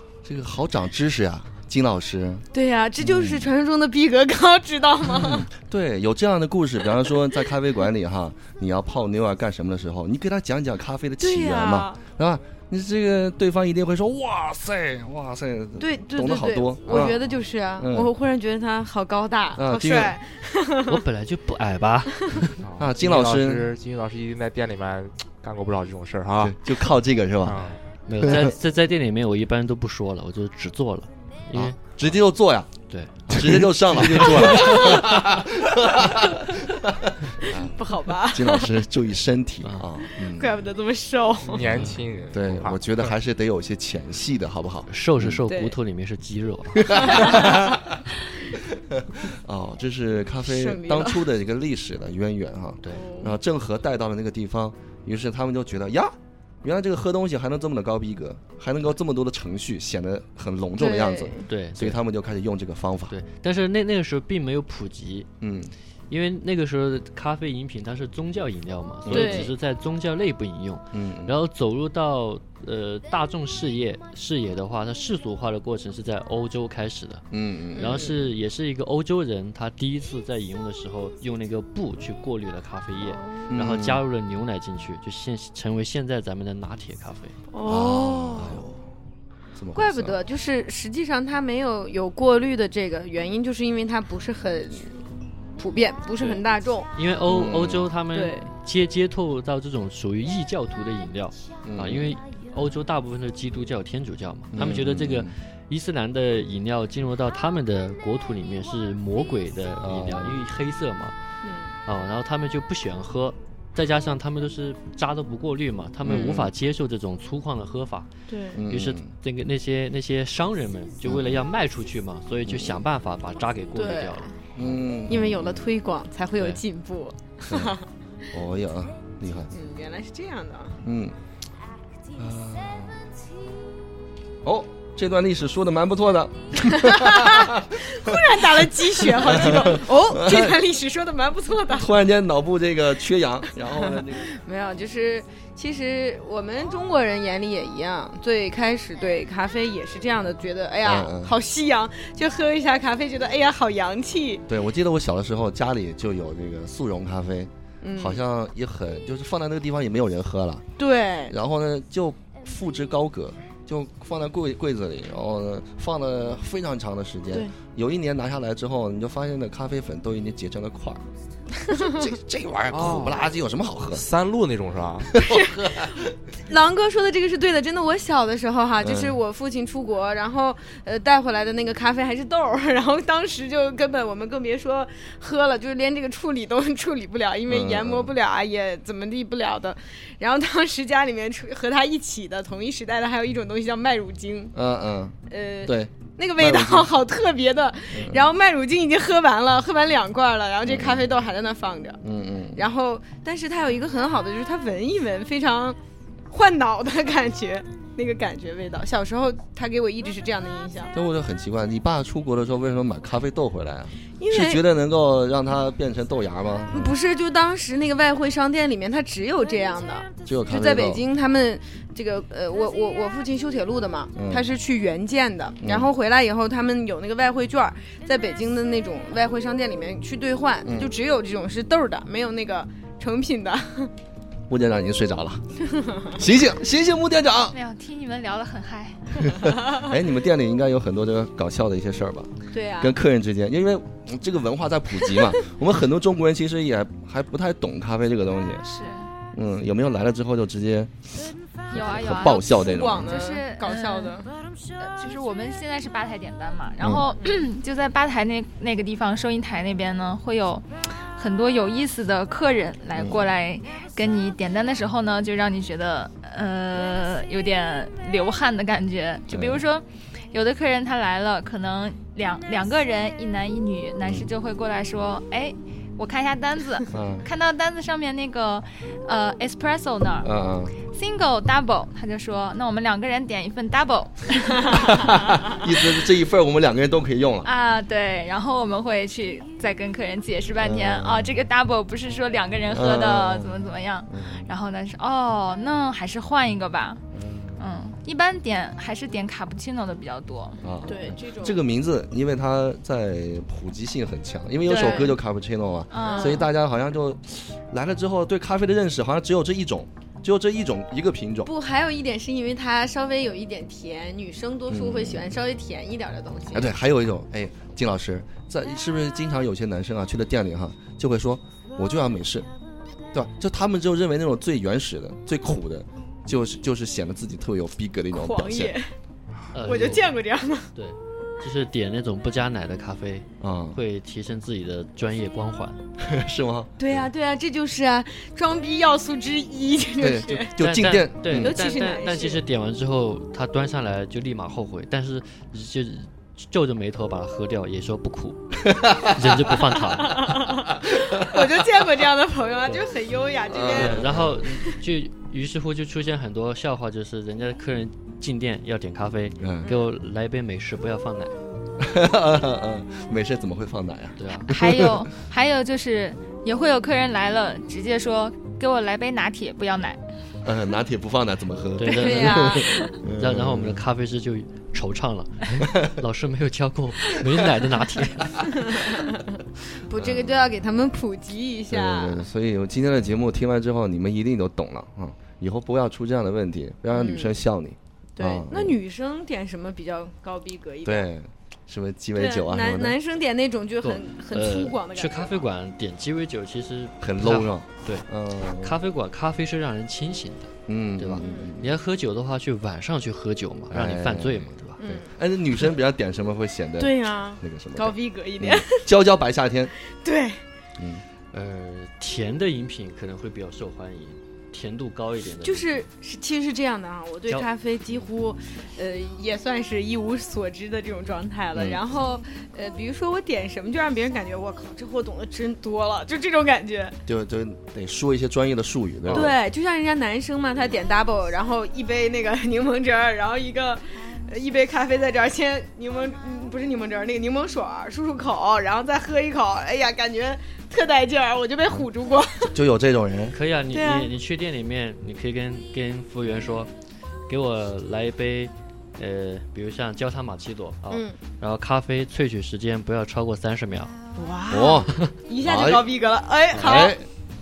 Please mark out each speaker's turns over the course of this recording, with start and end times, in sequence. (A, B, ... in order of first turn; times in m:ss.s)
0:00.2-0:02.4 A
0:02.5-0:05.4 B
0:03.0-0:03.5 A
0:05.0-0:17.2 A
0:11.2-0:12.0 B
0:15.8-0:21.0 B
0:17.8-0:18.1 A
0:19.5-0:20.2 A
0:20.9-0:22.2 C
0:22.6-0:26.6 D
0:22.8-0:23.7 A
0:26.4-0:28.5 A
0:27.4-0:27.8 D
0:28.0-0:32.1 C
0:31.5-0:32.7 A
0:32.9-0:33.6 C
0:33.3-0:40.6 A
0:33.4-0:35.1 D
0:37.5-0:38.7 B
0:40.2-0:41.7 B
0:41.4-0:43.1 D
0:41.6-0:45.4 A
0:44.9-0:47.4 C
0:45.5-0:45.8 B
0:46.8-0:47.8 A
0:47.0-0:47.7 B
0:48.8-1:03.1 A
0:50.4-0:51.2 B
0:52.9-0:53.3 B
1:00.8-1:01.5 B
1:01.5-1:02.0 C
1:03.1-1:05.3 C
1:05.4-1:05.7 A
1:06.1-1:17.2 C
1:09.0-1:09.5 A
1:09.1-1:09.5 B
1:10.9-1:11.3 A
1:17.3-1:18.1 A
1:17.7-1:18.2 B
1:17.8-1:27.4 C
1:23.0-1:23.5 B
1:23.5-1:24.0 A
1:27.5-1:28.6 B
1:27.6-1:28.8 A
1:29.6-1:30.2 A
1:29.7-1:35.0 B
1:35.6-1:36.9 B
1:36.2-1:51.2 C
1:37.3-1:37.9 A
1:38.1-1:38.5 B
1:41.6-1:42.1 A
1:44.5-1:45.3 A
1:49.8-1:50.4 A
1:51.4-1:51.7 B
1:51.8-1:58.1 C
1:56.0-1:56.5 A
1:56.1-1:56.4 B
1:58.3-1:58.6 B
1:58.5-1:59.1 A
1:58.6-2:04.3 C
2:01.0-2:01.4 A
2:02.4-2:02.8 A
2:03.8-2:04.4 B
2:04.5-2:05.7 A
2:05.1-2:07.9 B
2:06.4-2:06.6 C
2:07.5-2:07.8 A
2:08.3-2:09.5 A
2:09.5-2:10.8 B
2:10.8-2:11.2 A
2:12.2-2:13.0 A
2:14.4-2:20.6 A
2:16.6-2:22.0 B
2:21.7-2:24.3 A
2:23.8-2:34.4 B
2:30.8-2:31.4 A
2:34.5-2:40.6 A
2:37.8-2:38.2 B
2:40.8-2:41.3 B
2:41.3-2:51.0 A
2:51.7-2:54.0 A
2:52.7-2:53.3 D
2:53.9-2:55.2 D
2:55.1-2:56.0 A
2:55.2-3:14.5 B
2:58.8-2:59.2 A
3:07.5-3:08.1 A
3:14.5-3:16.9 A
3:15.3-3:22.0 B
3:17.9-3:18.3 A
3:20.6-3:21.0 A
3:22.0-3:22.6 A
3:22.5-3:25.8 B
3:26.3-3:30.9 B
3:30.9-3:37.0 A
3:34.2-3:34.6 B
3:36.7-3:53.9 B
3:40.2-3:41.0 A
3:44.1-3:44.5 A
3:45.6-3:45.9 A
3:50.6-3:50.9 A
3:54.5-3:55.4 A
3:55.7-3:56.2 B
3:56.1-3:57.6 A
3:57.5-3:59.4 E
3:59.2-4:08.6 A
4:02.5-4:03.0 B
4:08.6-4:09.1 E
4:09.3-4:13.2 A
4:11.7-4:14.2 E
4:12.6-4:14.3 B
4:14.8-4:40.3 E
4:16.8-4:17.1 A
4:23.0-4:23.3 A
4:29.3-4:29.6 A
4:36.9-4:37.3 A
4:40.2-4:40.8 A
4:40.9-4:45.0 E
4:44.7-4:47.5 A
4:47.4-4:57.0 E
4:50.6-4:51.3 A
4:52.7-4:53.5 A
4:54.1-4:54.5 A
4:57.1-4:57.6 A
4:57.6-5:00.6 E
5:00.6-5:11.5 A
5:00.8-5:01.6 B
5:04.7-5:05.2 E
5:05.9-5:06.5 E
5:06.0-5:06.5 B
5:11.4-5:16.7 B
5:14.7-5:15.4 A
5:16.5-5:22.5 A
5:23.1-5:28.7 A
5:28.1-5:28.9 B
5:29.5-5:30.1 C
5:29.6-5:30.7 B
5:30.7-5:35.8 C
5:33.4-5:33.8 A
5:36.0-5:37.0 A
5:36.8-5:40.5 B
5:40.0-5:41.6 A
5:40.6-5:50.4 C
5:41.3-5:42.4 B
5:48.7-5:49.6 A
5:49.6-5:54.6 B
5:51.2-5:51.5 A
5:53.5-5:54.5 A
5:53.7-6:01.4 C
5:59.4-5:59.7 A
6:01.8-6:05.0 A
6:04.2-6:04.5 C
6:04.4-6:10.0 E
6:10.4-6:13.8 A
6:11.8-6:12.6 C
6:11.9-6:12.9 B
6:13.1-6:18.4 C
6:15.6-6:15.9 A
6:18.4-6:22.2 B
6:19.9-6:20.5 A
6:21.7-6:28.8 A
6:26.9-6:27.3 B
6:28.2-6:31.1 B
6:30.8-6:33.0 A
6:32.2-6:35.4 B
6:33.8-6:38.0 C
6:37.0-6:38.8 A
6:38.6-6:44.8 C
6:40.7-6:41.7 A
6:41.2-6:41.5 B
6:43.7-6:49.7 A
6:44.8-6:45.1 B
6:46.8-6:48.8 B
6:50.0-6:50.4 B
6:50.8-6:51.0 A
6:51.3-6:55.7 C
6:55.4-7:07.0 B
7:01.5-7:01.8 A
7:07.0-7:09.4 A
7:09.1-7:22.5 B
7:22.5-7:23.4 A
7:23.3-7:26.7 C
7:23.7-7:24.1 B
7:27.3-7:33.9 C
7:30.9-7:31.2 B
7:34.2-7:37.0 B
7:34.5-7:35.9 A
7:36.5-7:37.1 A
7:36.6-7:36.8 C